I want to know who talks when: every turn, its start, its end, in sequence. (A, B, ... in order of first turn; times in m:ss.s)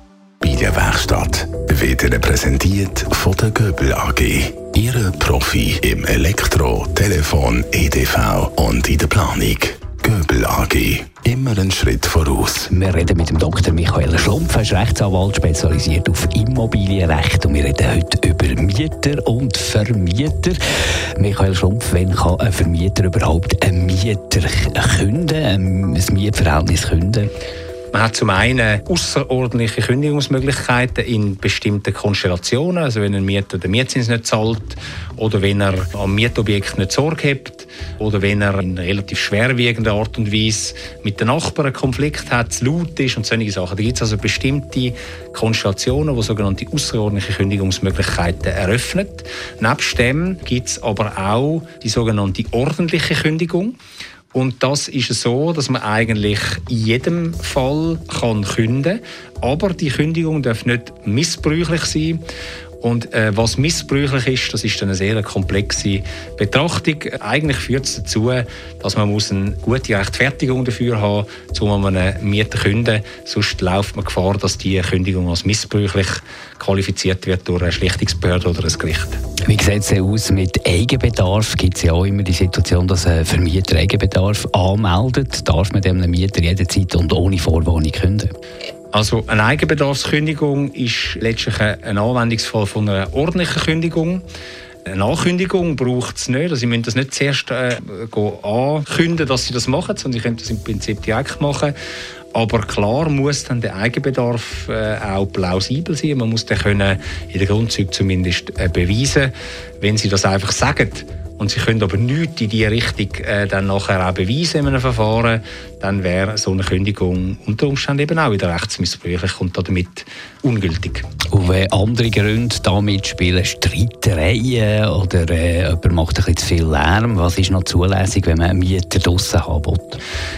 0:00.4-0:12.7 A
0:12.7-0:20.6 B
0:21.2-0:27.3 B
0:27.9-0:53.8 C
0:54.3-1:02.2 C
1:02.8-1:19.2 C
1:19.4-1:28.3 B
1:28.9-1:34.2 C
1:34.9-1:41.7 C
1:42.3-2:01.1 C
2:01.3-2:10.0 B